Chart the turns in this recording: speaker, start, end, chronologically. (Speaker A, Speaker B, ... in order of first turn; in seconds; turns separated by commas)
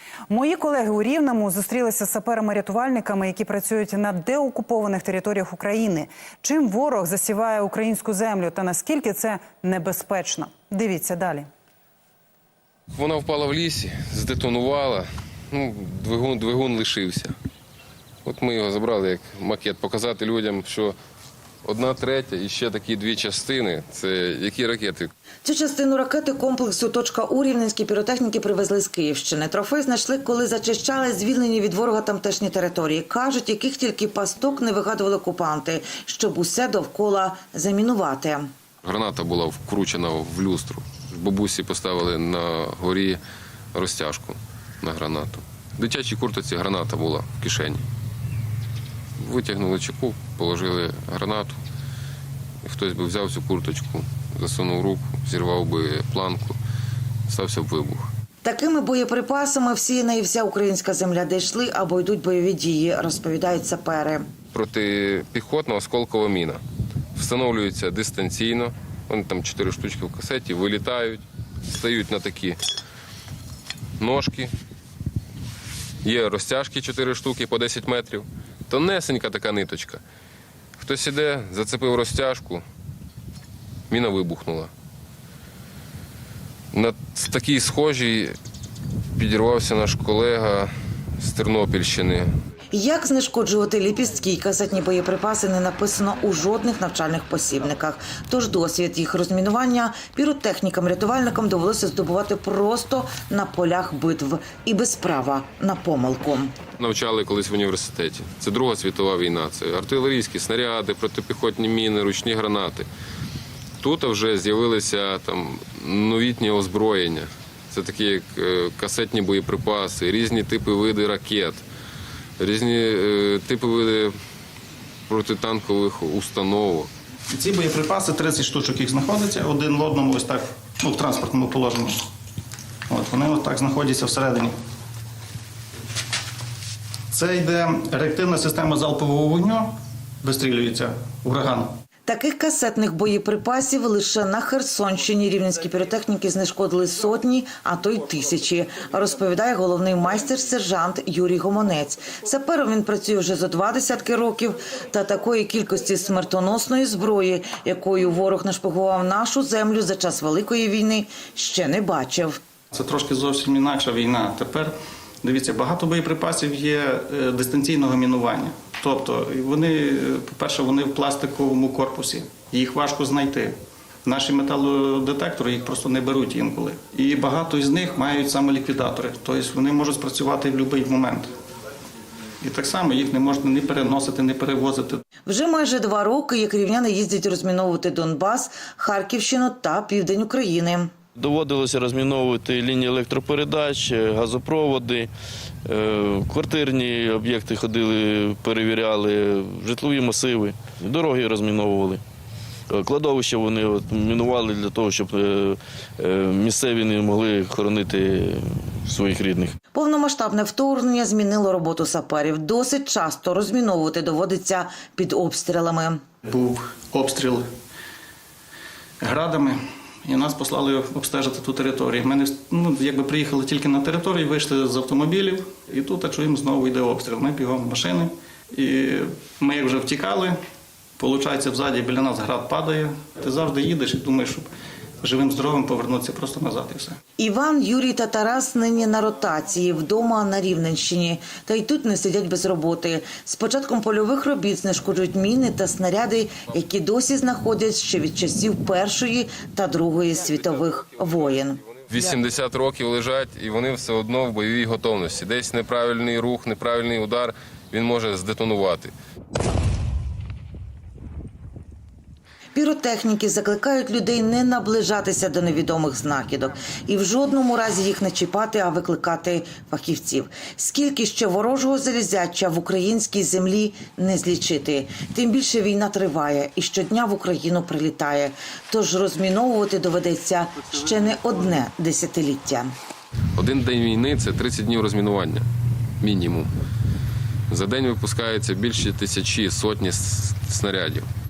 Speaker A: 0.3-11.5, Speaker B: 12.9-17.3, Speaker B: 18.2-20.9, Speaker B: 21.6-25.1, Speaker C: 25.4-38.5, Speaker B: 38.8-43.2, Speaker B: 43.7-47.8, Speaker B: 49.2-51.6, Speaker B: 52.6-56.6, Speaker B: 57.3-58.1, Speaker C: 58.4-64.3, Speaker B: 64.5-66.6, Speaker B: 67.2-72.6, Speaker B: 74.0-74.5, Speaker B: 76.0-80.0, Speaker B: 80.8-82.6, Speaker B: 83.9-84.7, Speaker B: 86.7-88.4, Speaker B: 89.2-92.3, Speaker C: 92.7-106.6, Speaker B: 106.8-112.9, Speaker B: 113.8-121.6, Speaker B: 122.4-124.1, Speaker B: 125.1-126.9, Speaker D: 127.3-132.0, Speaker D: 132.9-134.5, Speaker D: 137.1-141.8, Speaker C: 142.1-162.4, Speaker D: 162.7-181.3, Speaker D: 182.4-185.0, Speaker C: 185.3-190.9, Speaker E: 191.2-195.1, Speaker E: 195.7-202.0, Speaker E: 202.7-209.6, Speaker C: 209.7-216.0, Speaker D: 216.3-217.5, Speaker D: 219.0-230.4, Speaker D: 231.0-234.5, Speaker D: 235.0-237.0, Speaker C: 237.2-251.6, Speaker B: 251.9-258.9, Speaker C: 262.6-282.7, Speaker B: 283.4-285.4, Speaker B: 286.0-286.5, Speaker B: 287.5-291.1